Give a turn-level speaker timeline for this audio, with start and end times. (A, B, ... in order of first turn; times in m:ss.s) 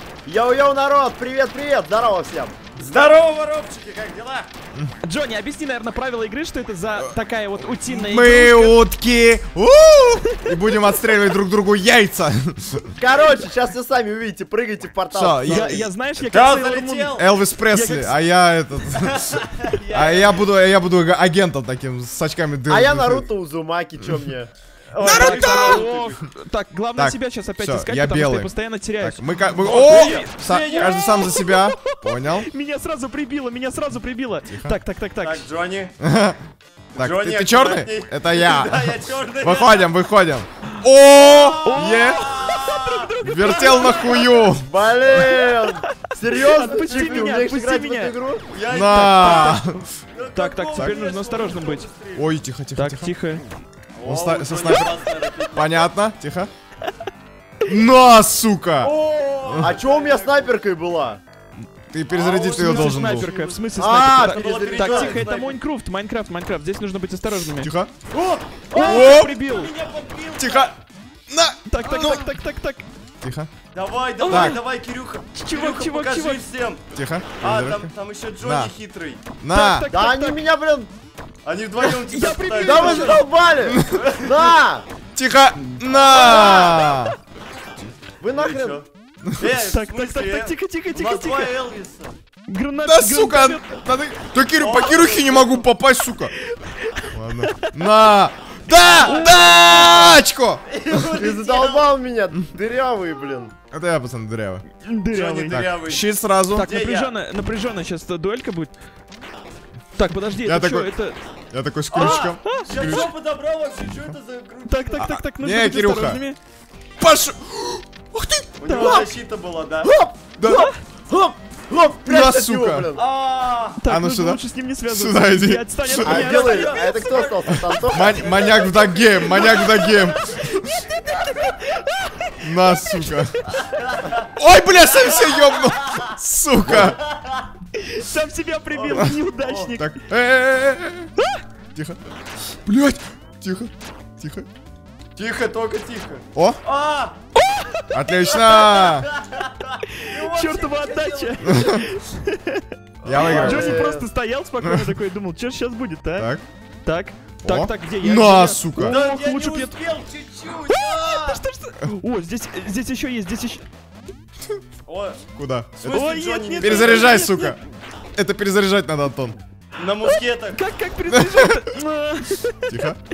0:00.2-0:02.6 A
0:02.8-0:04.5 B
0:05.0-0:08.8 C
0:07.8-0:12.9 D
0:13.0-0:15.8 A
0:15.1-0:15.9 D
0:15.4-0:18.1 C
0:16.3-0:17.2 B
0:17.1-0:23.3 D
0:19.0-0:20.4 B
0:22.7-0:24.5 A
0:24.0-0:24.2 D
0:24.9-0:31.7 C
0:25.0-0:26.2 B
0:25.0-0:25.9 D
0:25.0-0:25.3 A
0:26.9-0:32.5 D
0:29.6-0:31.0 B
0:32.4-0:35.4 C
0:34.4-0:34.8 D
0:35.2-0:35.9 B
0:36.0-0:36.4 D
0:36.9-0:39.9 B
0:37.0-0:42.3 D
0:41.1-0:44.5 B
0:41.6-0:44.1 C
0:43.2-0:45.2 D
0:44.6-0:48.4 A
0:45.8-0:48.1 C
0:46.8-0:47.2 B
0:48.5-0:52.2 B
0:48.7-0:49.8 D
0:49.1-0:49.6 C
0:50.3-0:51.9 C
0:52.1-0:53.1 D
0:52.8-0:53.4 C
0:53.9-0:55.9 B
0:54.0-0:54.9 D
0:55.5-0:56.5 D
0:57.6-0:58.9 D
0:58.8-1:00.5 B
0:59.4-0:59.7 D
0:59.6-1:01.2 A
1:01.7-1:03.3 D
1:02.1-1:05.6 B
1:02.6-1:07.7 C
1:03.8-1:05.3 A
1:07.6-1:07.9 D
1:08.1-1:10.7 B
1:08.7-1:09.7 C
1:08.8-1:09.3 D
1:10.4-1:10.7 D
1:11.3-1:12.3 D
1:11.6-1:12.8 C
1:13.2-1:13.5 D
1:13.7-1:16.8 B
1:14.2-1:14.6 C
1:14.3-1:14.6 D
1:15.3-1:16.4 C
1:16.9-1:18.7 D
1:17.4-1:19.2 B
1:19.4-1:19.9 D
1:19.5-1:20.4 C
1:19.9-1:20.9 A
1:21.4-1:24.5 B
1:21.8-1:23.2 C
1:22.5-1:24.8 A
1:23.6-1:24.0 D
1:25.1-1:27.2 D
1:25.8-1:27.0 B
1:26.1-1:26.9 A
1:28.2-1:28.8 A
1:28.3-1:28.8 B
1:29.4-1:32.1 B
1:29.7-1:31.5 C
1:32.5-1:33.6 C
1:32.8-1:36.4 D
1:34.6-1:35.7 B
1:36.7-1:37.7 C
1:37.1-1:40.6 D
1:38.7-1:41.9 B
1:39.0-1:39.3 C
1:41.1-1:43.5 A
1:43.7-1:44.6 D
1:44.8-1:45.6 C
1:45.1-1:47.2 B
1:45.5-1:46.7 D
1:46.5-1:48.7 C
1:50.0-1:51.2 C
1:50.4-1:50.9 D
1:51.5-1:53.1 D
1:51.9-1:55.0 B
1:52.0-1:53.0 C
1:54.7-1:56.4 C
1:55.0-1:56.2 D
1:57.0-1:59.1 D
1:58.6-1:59.9 B
1:58.7-1:59.0 C
1:59.8-2:03.0 A
2:00.4-2:00.7 D
2:00.5-2:00.7 C
2:02.0-2:02.9 D
2:02.9-2:03.8 B
2:03.8-2:06.8 C
2:03.8-2:06.3 D
2:06.0-2:08.5 A
2:06.0-2:10.4 B
2:07.8-2:10.8 D
2:10.9-2:12.4 C
2:12.4-2:13.5 D
2:13.6-2:14.3 B
2:14.4-2:17.0 D
2:14.8-2:16.0 B
2:16.6-2:16.9 A
2:16.7-2:17.5 B
2:17.8-2:19.9 C
2:18.7-2:19.7 B
2:18.9-2:19.2 D
2:19.8-2:21.1 D
2:22.6-2:24.5 D
2:25.2-2:27.2 B
2:27.5-2:27.8 C
2:27.9-2:29.1 D
2:28.3-2:31.6 B
2:30.0-2:32.6 C
2:31.4-2:31.8 D
2:33.0-2:33.8 D
2:33.0-2:33.8 B
2:33.2-2:34.1 A
2:33.2-2:36.3 C
2:34.6-2:34.9 D
2:36.2-2:36.4 D
2:36.8-2:39.8 C
2:37.4-2:39.0 D
2:38.8-2:41.4 B
2:40.7-2:43.6 C
2:44.8-2:45.2 B
2:45.3-2:47.6 D
2:45.8-2:47.1 B
2:45.8-2:47.6 C
2:48.2-2:49.4 D
2:49.8-2:50.6 B
2:50.5-2:52.8 C
2:51.1-2:51.6 D
2:52.7-2:53.0 D